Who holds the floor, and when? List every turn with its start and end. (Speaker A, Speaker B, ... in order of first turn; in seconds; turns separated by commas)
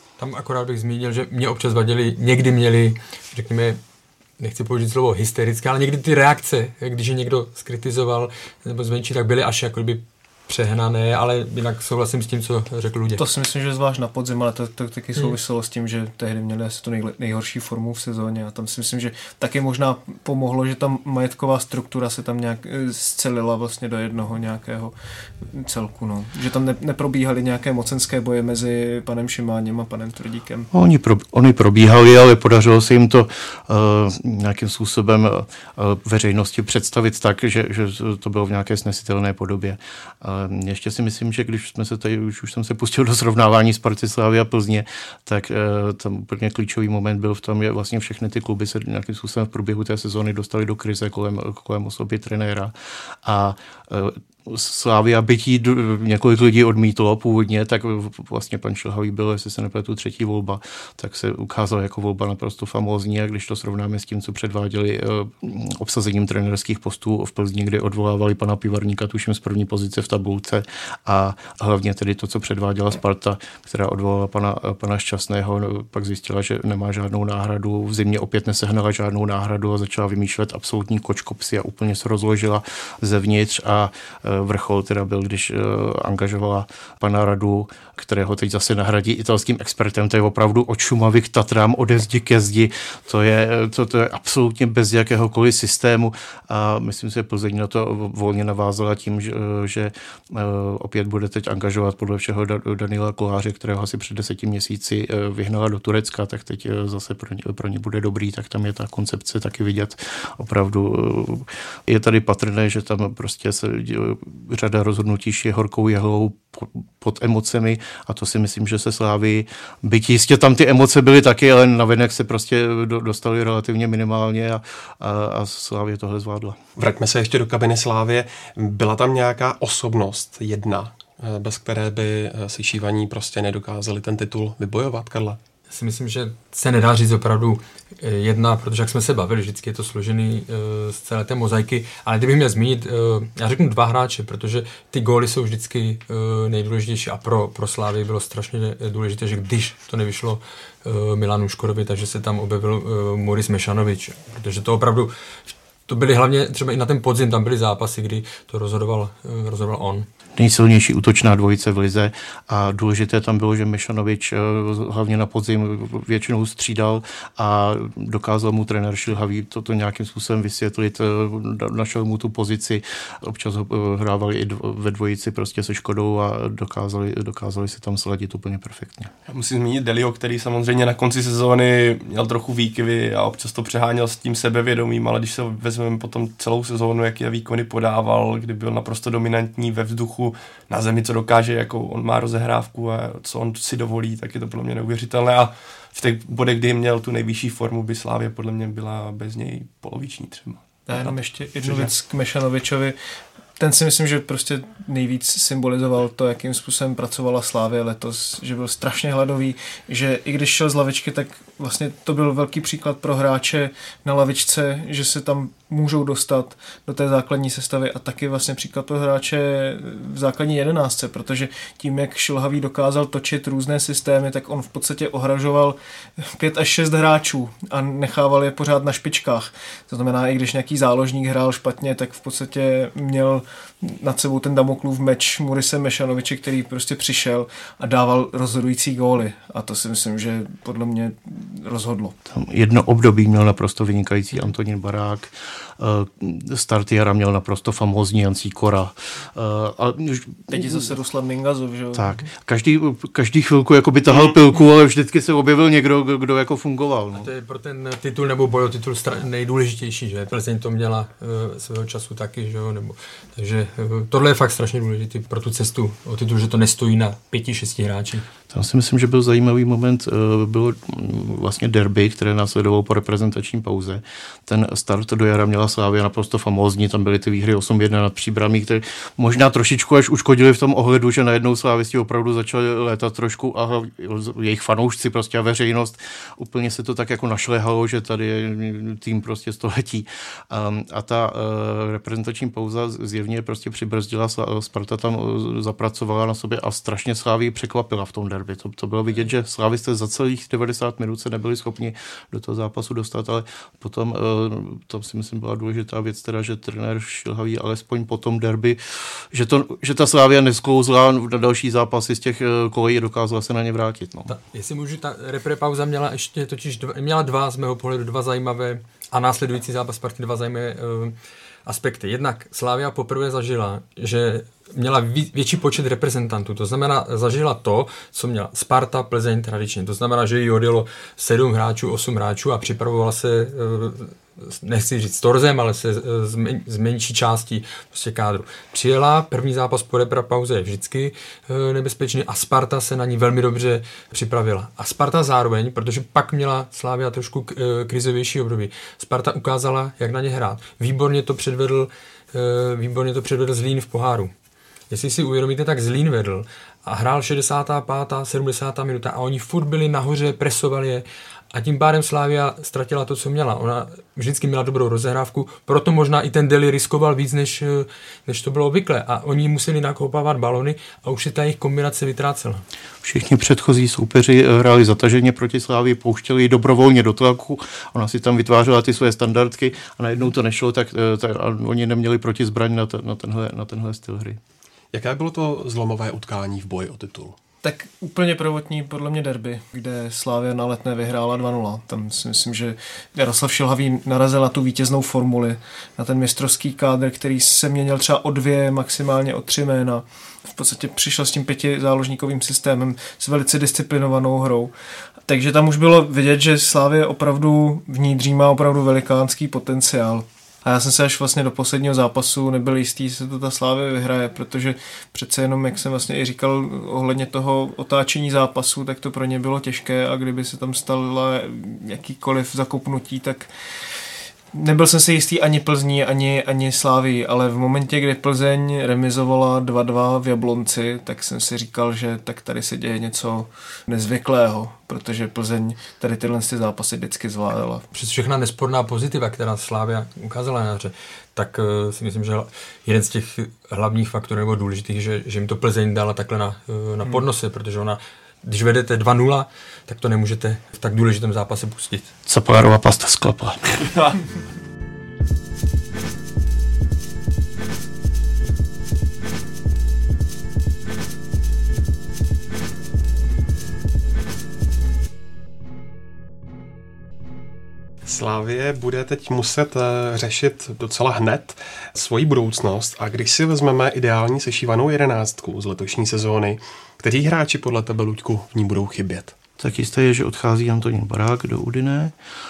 Speaker A: 0.2-3.8, Speaker A: 4.4-13.2, Speaker B: 13.2-24.9, Speaker B: 25.5-30.7, Speaker C: 30.7-52.7, Speaker C: 53.2-126.6, Speaker D: 126.8-135.4, Speaker A: 135.7-155.1, Speaker A: 155.9-160.1, Speaker C: 160.4-179.1, Speaker E: 179.3-201.9, Speaker B: 200.9-203.0, Speaker B: 203.6-242.2, Speaker C: 242.3-251.0, Speaker B: 250.5-252.1, Speaker C: 251.9-257.3, Speaker A: 257.1-268.3, Speaker C: 268.5-308.8, Speaker C: 309.3-314.3, Speaker A: 314.3-321.1, Speaker A: 321.7-354.3, Speaker A: 354.9-372.6, Speaker C: 373.0-384.4, Speaker D: 384.9-387.4, Speaker B: 387.6-404.7, Speaker B: 405.3-423.5, Speaker B: 424.5-437.9, Speaker A: 437.9-452.1, Speaker C: 452.3-453.6, Speaker D: 468.0-479.4, Speaker C: 479.6-482.1